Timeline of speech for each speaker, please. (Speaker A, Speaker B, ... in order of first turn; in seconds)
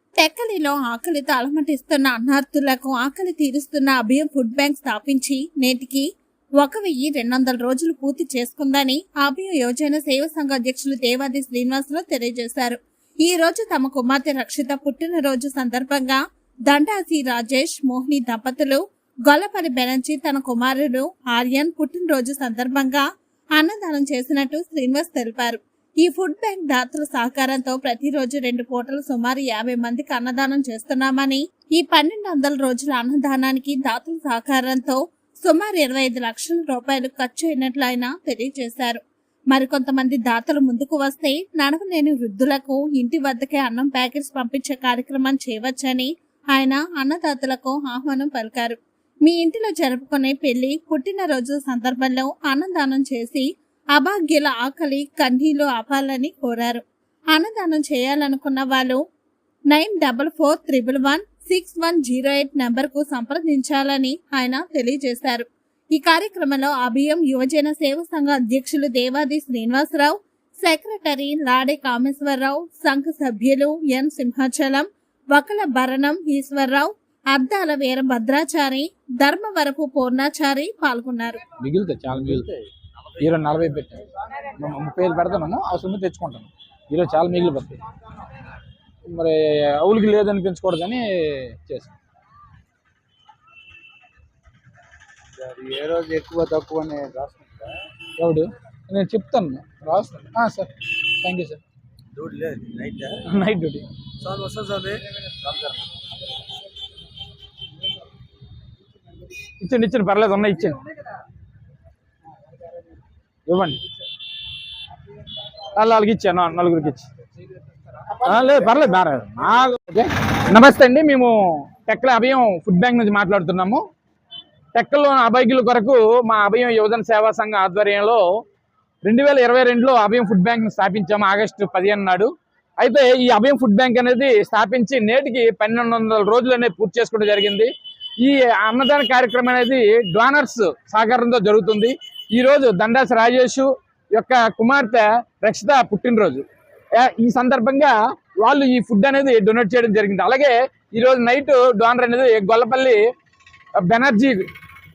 Speaker A: 0.2-6.1, 6.6-23.0, 23.6-59.0, 59.7-81.4
Speaker B: 81.6-82.5, 83.2-84.0, 84.6-87.8, 89.1-91.9, 98.2-100.7, 101.2-101.6, 103.2-103.8, 109.6-110.8, 113.5-113.8, 115.7-117.1, 118.1-123.8, 124.7-128.2, 129.0-146.4, 146.9-153.0, 153.8-154.4
Speaker C: 95.3-97.7, 102.2-103.2, 104.2-105.5